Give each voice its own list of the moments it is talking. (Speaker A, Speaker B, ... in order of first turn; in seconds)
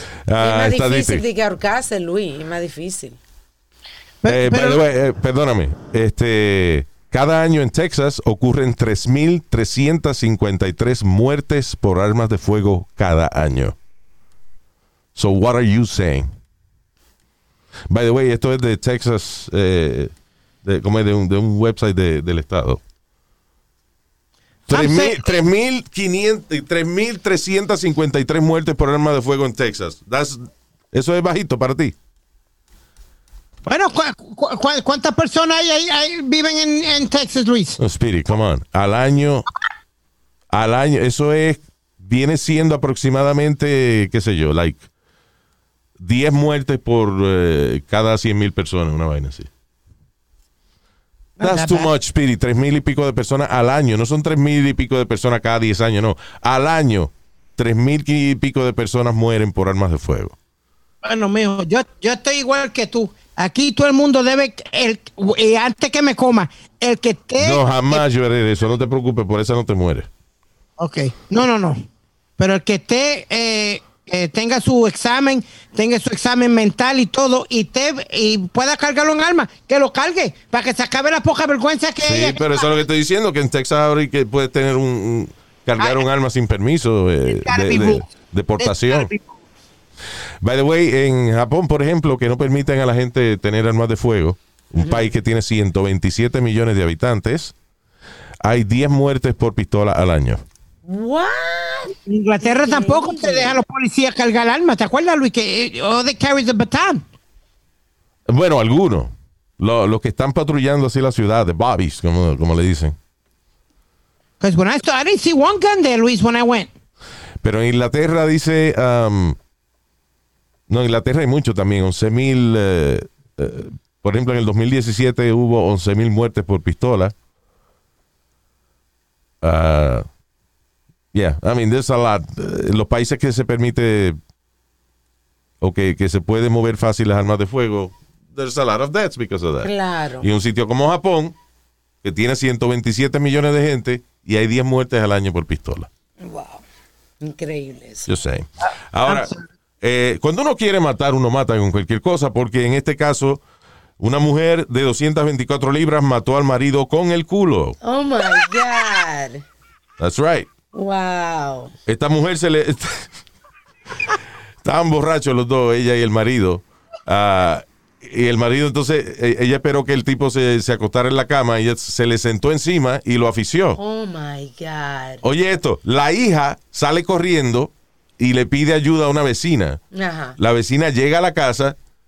Speaker A: 0.3-1.2, 4.3-13.8, 15.2-16.3, 17.9-20.1, 20.6-22.8, 24.7-31.9, 37.8-39.5, 40.5-44.9, 46.0-49.5, 51.4-60.4, 67.4-70.1, 82.0-89.1, 90.4-97.5, 98.4-100.4, 108.3-113.0, 117.4-119.4, 120.7-127.1, 129.4-130.1, 131.1-134.2, 135.6-141.3, 142.0-145.9, 148.1-153.4, 154.0-157.8, 160.0-160.5, 161.9-163.1, 164.6-173.8, 175.2-179.8, 180.4-181.8
Speaker B: 0.4-3.2, 100.8-103.6, 139.6-140.3, 146.2-146.6, 147.2-148.1, 157.8-159.4, 160.7-161.7, 173.8-175.2, 179.9-180.4
Speaker C: 4.2-4.8, 24.7-25.3, 33.7-37.8, 51.4-51.9, 61.0-68.0, 70.8-71.8, 72.4-82.7, 87.3-89.4, 102.1-107.0, 114.4-116.7, 149.1-149.4